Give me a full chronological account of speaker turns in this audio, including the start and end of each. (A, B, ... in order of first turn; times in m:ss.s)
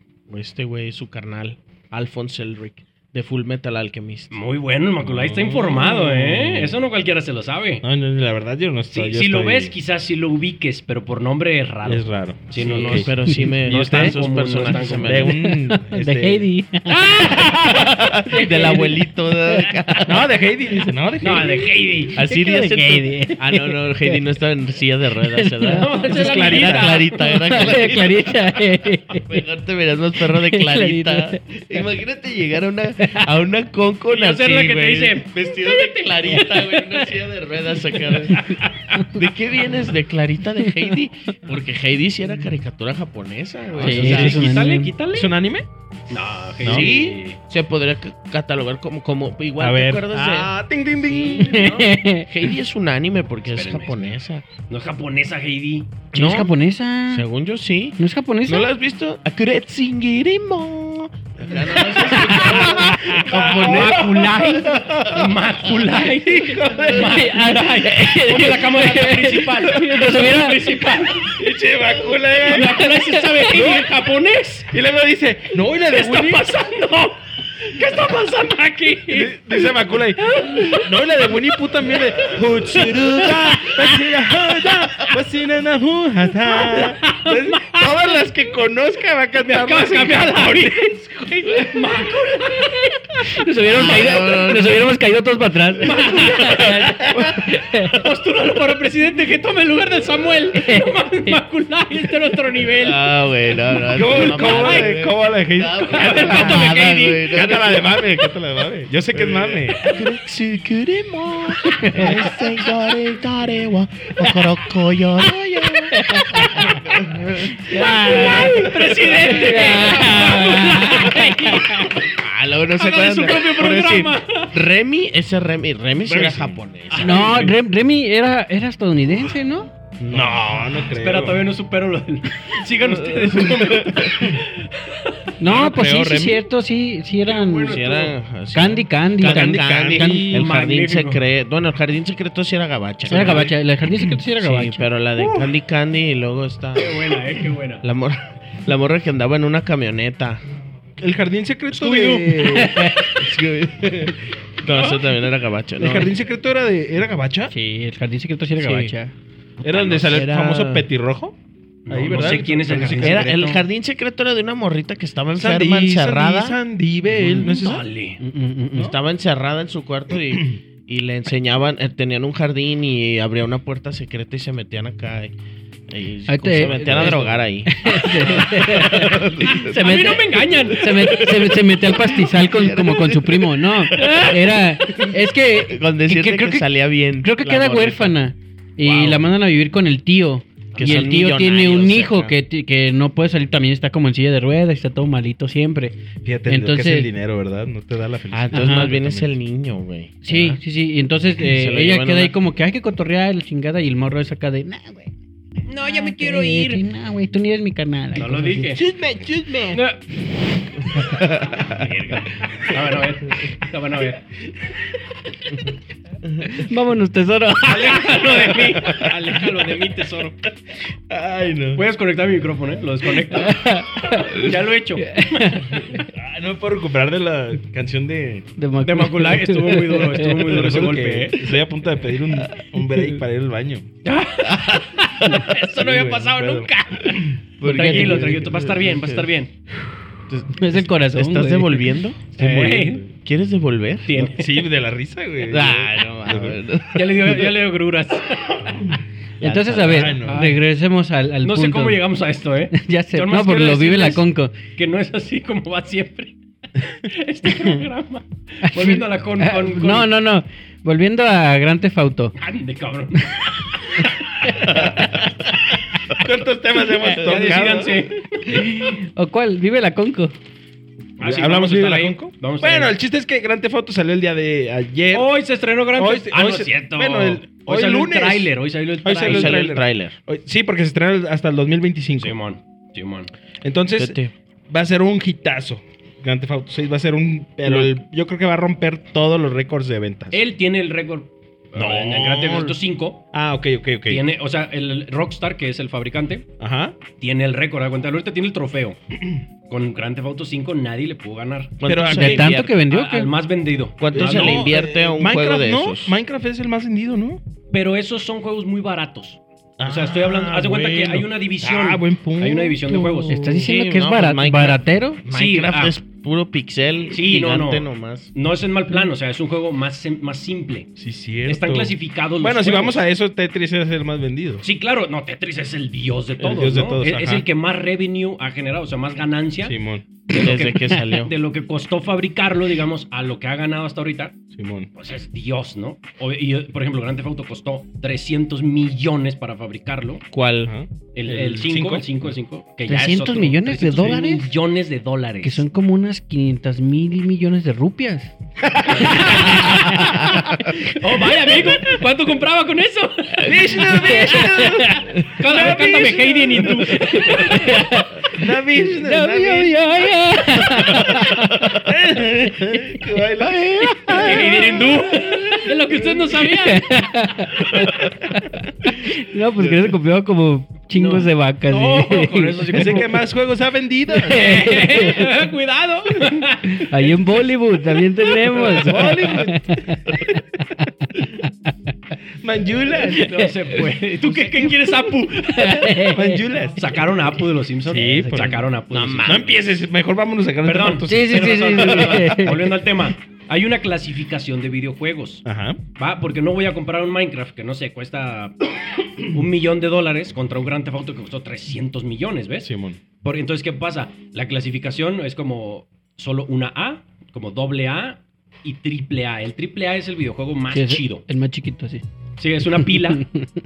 0:00.3-0:04.4 A
0:04.3-0:07.8 B
0:05.0-0:06.8 C
0:07.8-0:09.7 C
0:08.9-0:15.4 B
0:11.8-0:16.5 C
0:12.6-0:15.4 A
0:15.4-0:19.8 D
0:16.9-0:17.9 B
0:17.4-0:20.3 A
0:20.0-0:21.7 C
0:21.2-0:22.2 B
0:22.1-0:44.4 A
0:22.2-0:24.2 D
0:25.2-0:25.9 D
0:25.7-0:27.9 B
0:26.1-0:27.0 C
0:27.2-0:29.4 D
0:30.2-0:31.4 D
0:33.0-0:33.3 D
0:34.1-0:37.1 B
0:38.0-0:39.1 B
0:43.8-0:45.3 B
0:43.8-0:44.9 D
0:43.9-0:44.4 C
0:45.1-0:45.7 C
0:46.1-0:47.4 B
0:46.6-0:46.9 C
0:46.6-0:50.5 A
0:49.6-0:51.8 C
0:51.3-0:51.9 B
0:51.3-0:52.3 D
0:51.5-0:54.5 A
0:53.5-0:54.1 B
0:54.7-0:56.0 B
0:56.1-0:56.5 A
0:56.1-0:57.3 D
0:57.1-1:05.3 A
0:58.0-0:58.7 D
1:02.1-1:03.2 D
1:02.2-1:11.4 B
1:03.1-1:05.3 C
1:06.4-1:07.1 C
1:06.9-1:10.9 D
1:11.3-1:12.9 C
1:12.0-1:14.7 B
1:12.8-1:13.5 D
1:13.5-1:13.9 C
1:14.7-1:16.5 C
1:15.9-1:24.8 B
1:19.1-1:31.3 C
1:26.5-1:28.2 B
1:29.4-1:33.0 B
1:33.3-1:38.0 D
1:33.7-1:34.2 B
1:33.7-1:34.9 A
1:35.8-1:37.3 B
1:36.2-1:37.4 A
1:37.9-1:45.0 B
1:40.5-1:41.4 D
1:42.8-1:48.3 A
1:43.9-1:49.8 C
1:45.7-1:47.5 B
1:49.1-1:58.6 A
1:51.7-1:52.3 D
1:55.9-1:56.9 D
1:57.5-2:01.7 D
1:57.7-2:02.2 B
2:02.0-2:07.5 A
2:02.8-2:04.6 B
2:06.0-2:06.6 C
2:06.9-2:07.5 B
2:07.0-2:09.7 D
2:10.0-2:11.4 C
2:10.1-2:10.4 A
2:10.7-2:15.1 B
2:12.7-2:14.3 A
2:15.4-2:17.8 D
2:15.4-2:16.5 C
2:17.3-2:18.2 B
2:17.7-2:23.6 A
2:18.5-2:20.3 D
2:19.2-2:20.5 C
2:20.3-2:21.2 B
2:23.1-2:24.9 D
2:23.2-2:23.4 C
2:24.4-2:27.2 A
2:26.8-2:27.8 B
2:27.8-2:30.4 A
2:31.0-2:32.8 C
2:31.7-2:33.3 B
2:32.4-2:33.1 D
2:33.2-2:36.1 A
2:34.7-2:35.2 B
2:35.8-2:37.5 C
2:37.5-2:39.1 D
2:38.6-2:39.0 A
2:39.6-2:41.4 C
2:39.6-2:40.8 A
2:39.6-2:40.1 B
2:41.8-2:43.6 B
2:41.9-2:43.5 C
2:42.7-2:46.6 A
2:45.4-2:47.9 C
2:47.2-2:47.6 D
2:47.4-2:48.2 B
2:47.4-2:47.8 A
2:48.2-2:48.9 D
2:48.8-2:55.3 A
2:50.3-2:50.6 C
2:55.9-3:04.4 A
2:56.3-3:17.1 D
2:56.6-2:57.2 C
2:59.5-3:01.2 B
3:03.9-3:04.6 B
3:05.6-3:08.2 A
3:08.8-3:09.3 A
3:10.8-3:12.4 A
3:16.2-3:19.4 C
3:18.3-3:20.6 A
3:18.5-3:19.0 D
3:20.2-3:25.1 D
3:21.4-3:22.4 A
3:25.7-3:26.8 B
3:25.8-3:28.8 D
3:28.2-3:28.8 B
3:28.8-3:29.8 A
3:29.4-3:29.8 C
3:29.7-3:30.0 B
3:30.9-3:31.9 A
3:31.6-3:34.2 B
3:36.5-3:38.3 D
3:37.7-3:40.4 B
3:38.5-3:39.1 C
3:41.1-3:41.8 C
3:41.8-3:45.8 B
3:43.3-3:46.1 D
3:46.1-3:48.5 C
3:48.6-3:50.5 D
3:48.8-3:51.4 B
3:50.4-3:53.9 C
3:54.0-3:59.5 B
3:55.4-3:57.4 C
3:57.6-3:59.3 A
3:57.7-3:58.3 D
4:00.3-4:02.2 A
4:00.5-4:02.0 D
4:02.4-4:03.2 C
4:02.4-4:03.0 B
4:03.2-4:04.3 A
4:04.1-4:04.7 B
4:04.3-4:06.6 C
4:05.5-4:07.5 A
4:06.9-4:09.0 B
4:09.4-4:12.0 D
4:09.4-4:10.2 A
4:09.8-4:10.4 C
4:10.2-4:10.6 B
4:11.4-4:20.1 B
4:12.7-4:14.6 D
4:18.6-4:22.3 D
4:22.4-4:25.2 B
4:24.5-4:25.2 C
4:26.1-4:28.1 C
4:27.0-4:28.6 B
4:27.4-4:27.8 A
4:28.5-4:30.3 D
4:31.2-4:33.0 B
4:31.2-4:35.3 C
4:35.1-4:39.7 B
4:36.0-4:38.5 C
4:39.0-4:42.4 C
4:39.2-4:40.2 A
4:42.2-4:43.3 B
4:43.6-4:44.2 C
4:44.0-4:44.3 A
4:44.7-4:50.4 C
4:50.3-4:53.2 B
4:51.8-4:52.8 C
4:53.3-4:54.2 C
4:54.1-4:56.5 B
4:56.6-4:57.0 C
4:57.2-4:59.0 B
4:59.7-5:02.2 B
5:01.8-5:02.8 A
5:01.8-5:02.5 C
5:02.1-5:03.3 D
5:02.9-5:04.7 B
5:04.0-5:06.2 A
5:04.1-5:07.4 C
5:07.7-5:13.4 B
5:09.8-5:13.6 C
5:13.2-5:15.2 D
5:13.6-5:18.3 A
5:15.3-5:16.0 B
5:17.1-5:20.9 B
5:21.0-5:24.6 C
5:21.5-5:23.0 B
5:24.6-5:29.8 B
5:26.4-5:27.5 C
5:29.6-5:30.1 C
5:30.3-5:34.4 B
5:30.3-5:31.3 A
5:34.5-5:34.9 C
5:35.0-5:40.2 B
5:40.3-5:40.7 A
5:40.6-5:42.3 C
5:41.1-5:45.7 B
5:42.9-5:44.5 D
5:45.4-5:52.0 D
5:48.8-5:57.9 B
5:53.4-5:57.8 C
5:53.8-5:55.0 D
5:57.1-6:01.8 D
5:58.3-5:59.8 C
6:00.7-6:05.1 C
6:03.6-6:04.6 D
6:04.2-6:07.9 B
6:05.2-6:05.6 D
6:06.4-6:12.9 D
6:10.9-6:13.2 B
6:12.7-6:14.8 C
6:14.2-6:15.3 D
6:14.3-6:17.1 B
6:16.7-6:21.5 D
6:18.3-6:19.0 B
6:18.8-6:20.2 C
6:22.4-6:23.3 C
6:23.1-6:26.2 B
6:23.1-6:23.5 D
6:25.5-6:26.4 D
6:26.1-6:27.1 C
6:26.8-6:29.6 B
6:27.8-6:28.7 C
6:28.9-6:29.6 A
6:29.2-6:32.2 C
6:30.6-6:35.4 B
6:31.1-6:32.8 D
6:35.4-6:35.8 C
6:36.0-6:42.7 B
6:42.6-6:43.0 C
6:43.2-6:51.2 B
6:50.7-6:52.0 D
6:52.4-6:53.3 B
6:53.1-6:53.5 D